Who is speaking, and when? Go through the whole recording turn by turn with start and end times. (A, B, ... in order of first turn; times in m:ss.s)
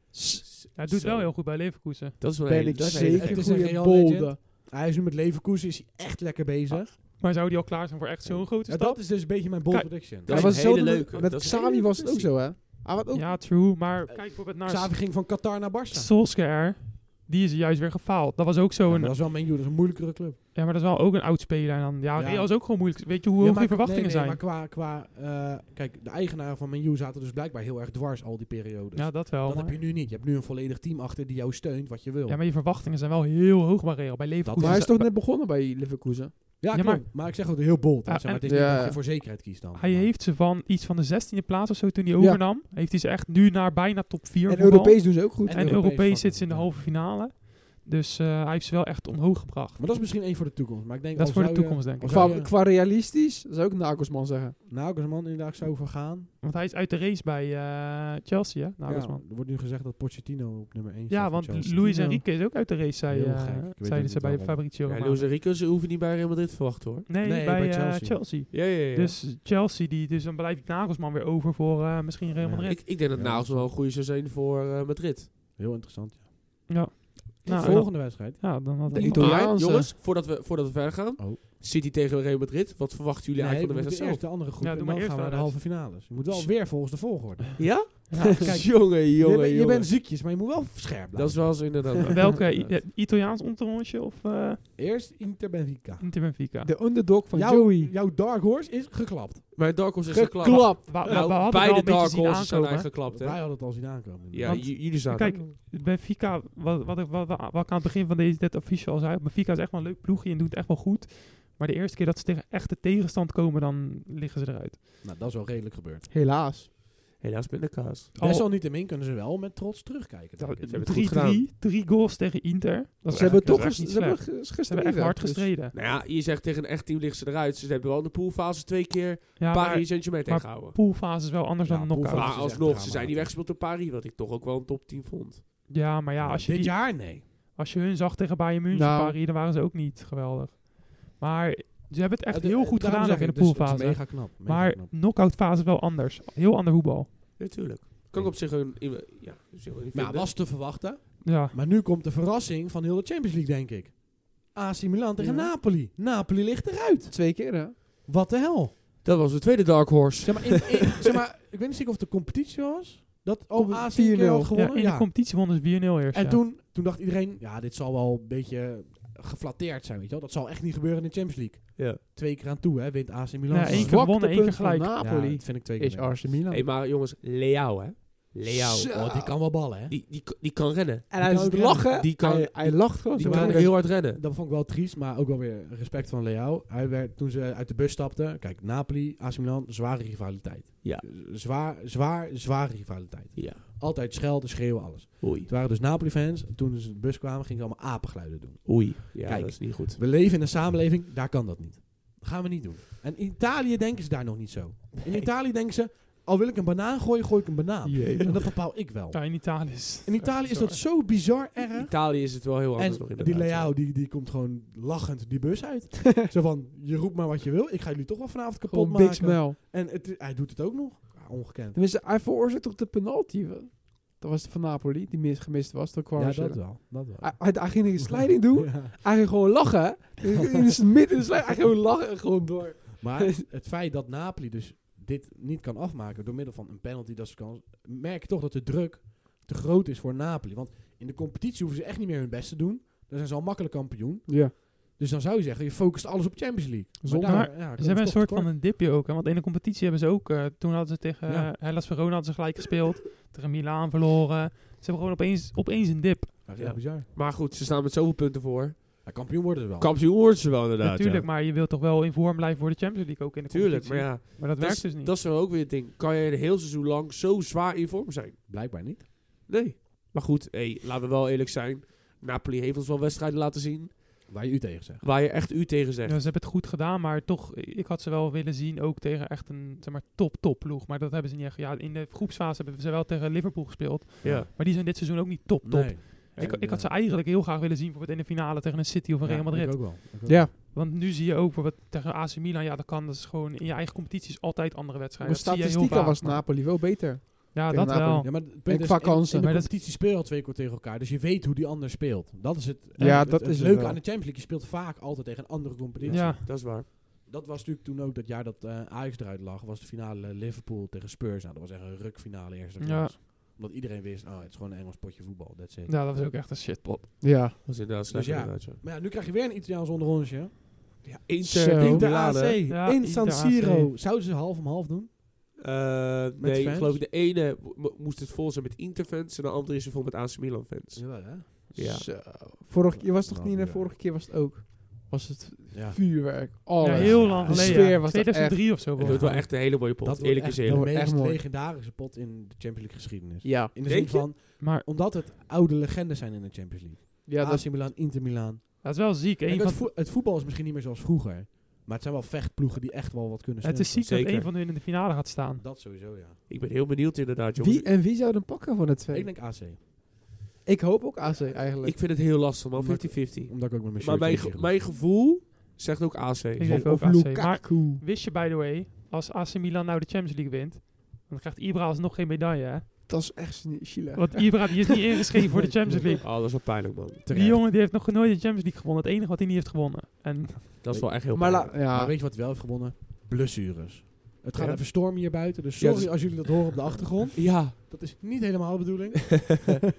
0:00.1-0:00.4 A
0:00.4-0:01.5 B
0:00.7-0:02.2 C
0:02.2-0:03.4 B
0:02.4-0:04.4 A
0:02.8-0:07.2 D
0:07.0-0:10.4 C
0:08.2-0:10.6 D
0:10.2-0:12.4 B
0:10.3-0:13.4 A
0:13.1-0:15.3 C
0:14.4-0:16.1 D
0:15.9-0:19.2 C
0:18.8-0:20.4 D
0:20.5-0:24.4 C
0:22.1-0:32.4 D
0:28.9-0:29.8 C
0:32.3-0:35.1 C
0:34.4-0:35.0 D
0:34.6-0:36.6 A
0:36.6-0:40.1 D
0:36.7-0:49.9 C
0:38.4-0:39.0 A
0:42.2-0:42.4 A
0:44.5-0:45.8 A
0:45.4-0:46.8 D
0:49.8-0:52.5 D
0:51.1-0:52.4 C
0:52.0-0:54.6 A
0:54.6-0:56.3 D
0:56.4-0:59.2 C
0:58.9-1:01.9 D
1:01.1-1:05.3 C
1:01.8-1:02.2 A
1:03.1-1:04.6 D
1:04.8-1:07.1 B
1:07.1-1:12.8 C
1:07.2-1:08.2 D
1:08.5-1:09.2 B
1:12.4-1:13.7 D
1:12.6-1:15.3 B
1:15.6-1:16.2 D
1:16.7-1:19.5 C
1:17.4-1:18.6 D
1:18.8-1:19.9 A
1:18.9-1:24.2 B
1:23.4-1:31.9 D
1:24.6-1:27.0 C
1:27.6-1:29.9 B
1:28.1-1:28.4 C
1:28.1-1:28.5 A
1:31.1-1:32.7 B
1:32.1-1:34.6 C
1:34.8-1:36.1 D
1:36.0-1:36.7 C
1:36.6-1:37.9 A
1:37.3-1:39.6 D
1:39.5-1:45.4 B
1:40.1-1:41.2 A
1:40.8-1:42.9 C
1:43.1-1:44.7 D
1:44.4-1:54.8 C
1:55.0-1:56.1 D
1:56.1-1:56.7 A
1:57.2-1:58.1 B
1:58.2-1:58.4 C
1:58.2-2:00.9 D
2:00.4-2:05.7 C
2:00.6-2:01.4 B
2:03.0-2:05.5 A
2:03.1-2:03.6 B
2:05.7-2:10.8 B
2:09.4-2:12.6 C
2:11.6-2:13.3 D
2:12.1-2:15.4 B
2:15.7-2:27.1 C
2:16.2-2:17.2 D
2:18.7-2:19.2 A
2:22.3-2:24.9 D
2:27.4-2:30.3 B
2:28.1-2:28.4 D
2:29.9-2:38.7 D
2:31.2-2:31.6 C
2:35.2-2:35.5 A
2:37.1-2:37.7 A
2:39.0-2:41.1 B
2:40.2-2:45.2 D
2:43.5-2:44.5 A
2:44.5-2:46.4 C
2:46.1-2:54.1 D
2:53.5-2:54.9 C
2:53.7-2:56.6 A
2:55.0-2:56.2 D
2:56.5-3:01.2 B
2:58.5-2:59.3 A
2:58.9-3:00.0 D
3:01.1-3:03.7 A
3:01.2-3:41.8 D
3:01.8-3:04.2 B
3:13.3-3:13.6 B
3:15.2-3:15.5 B
3:18.6-3:20.0 B
3:27.8-3:28.4 A
3:28.8-3:30.8 C
3:31.8-3:33.7 B
3:38.7-3:39.6 A
3:41.7-3:53.4 A
3:46.1-3:48.9 D
3:50.3-3:50.7 D
3:53.0-4:08.5 D
4:04.3-4:04.5 A
4:07.0-4:07.4 A
4:07.2-4:16.4 C
4:11.2-4:11.5 D
4:16.4-4:17.1 D
4:16.6-4:21.3 B
4:19.0-4:19.9 D
4:20.8-4:25.1 C
4:23.5-4:28.4 B
4:28.5-4:29.0 D
4:29.4-4:34.0 B
4:34.3-4:35.0 D
4:35.0-4:36.2 B
4:36.0-4:58.8 C
4:44.2-4:44.5 D
4:44.2-4:44.5 B
4:45.6-4:46.9 D
4:49.2-4:50.5 D
4:50.2-4:50.5 A
4:55.2-4:59.5 A
4:58.2-5:16.1 D
4:59.3-4:59.7 C
5:03.0-5:04.0 A
5:06.0-5:06.8 B
5:06.1-5:06.4 C
5:12.8-5:13.1 C
5:15.9-5:17.2 C
5:17.2-5:17.6 A
5:17.6-5:18.8 B
5:18.0-5:20.6 D
5:21.0-5:22.6 B
5:21.4-5:22.1 A
5:21.7-5:25.1 D
5:22.6-5:23.9 C
5:25.6-5:32.1 B
5:26.4-5:27.0 D
5:30.9-5:31.7 D
5:31.8-5:38.8 A
5:32.9-5:33.9 D
5:35.7-5:36.0 D
5:36.8-5:39.5 C
5:36.8-5:37.9 D
5:39.0-5:40.9 B
5:39.0-5:54.1 D
5:40.7-5:41.4 A
5:43.4-5:43.7 A
5:43.8-5:44.2 B
5:44.6-5:44.8 C
5:47.2-5:47.6 A
5:48.8-5:49.9 C
5:53.6-5:55.6 C
5:54.0-5:54.5 B
5:55.6-5:56.4 D
5:56.5-5:57.9 B
5:57.6-5:59.3 A
5:59.1-5:59.8 D
6:00.6-6:02.0 A
6:01.8-6:06.8 B
6:02.7-6:04.8 D
6:06.6-6:12.9 C
6:06.6-6:08.0 A
6:13.1-6:16.2 A
6:14.1-6:16.3 C
6:15.5-6:16.6 D
6:16.2-6:17.2 B
6:17.2-6:17.6 D
6:17.3-6:20.7 C
6:20.8-6:21.7 B
6:20.9-6:29.8 D
6:21.3-6:22.1 A
6:24.5-6:26.8 B
6:27.3-6:27.7 B